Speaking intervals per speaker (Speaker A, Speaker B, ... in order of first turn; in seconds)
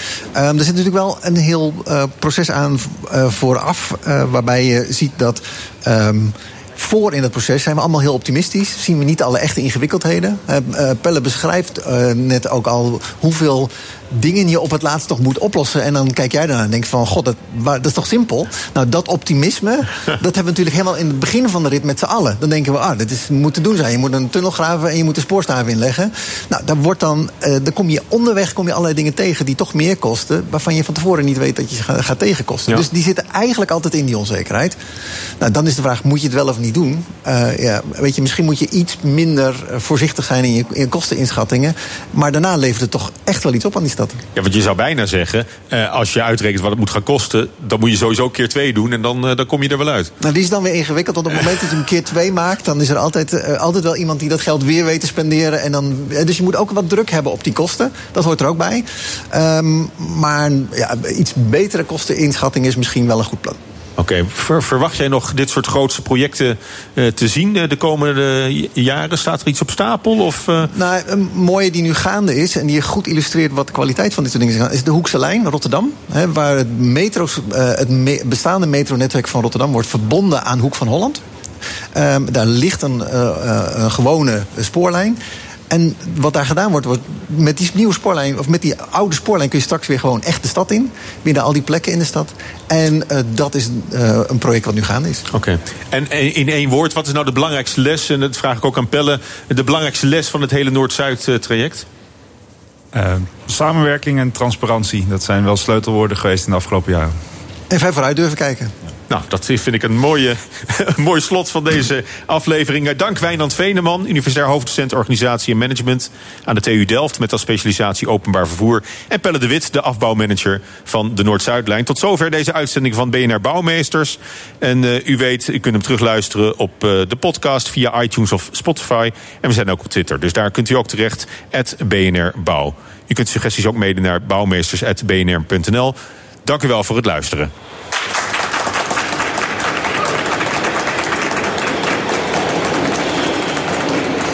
Speaker A: 0.3-34.8, 35.4-44.2, 50.2-63.6, 70.7-81.2, 81.9-85.2, 85.7-95.3, 107.7-108.7
Speaker B: 44.4-50.1, 64.0-70.7, 95.3-101.9, 109.1-137.5
Speaker C: 102.9-107.1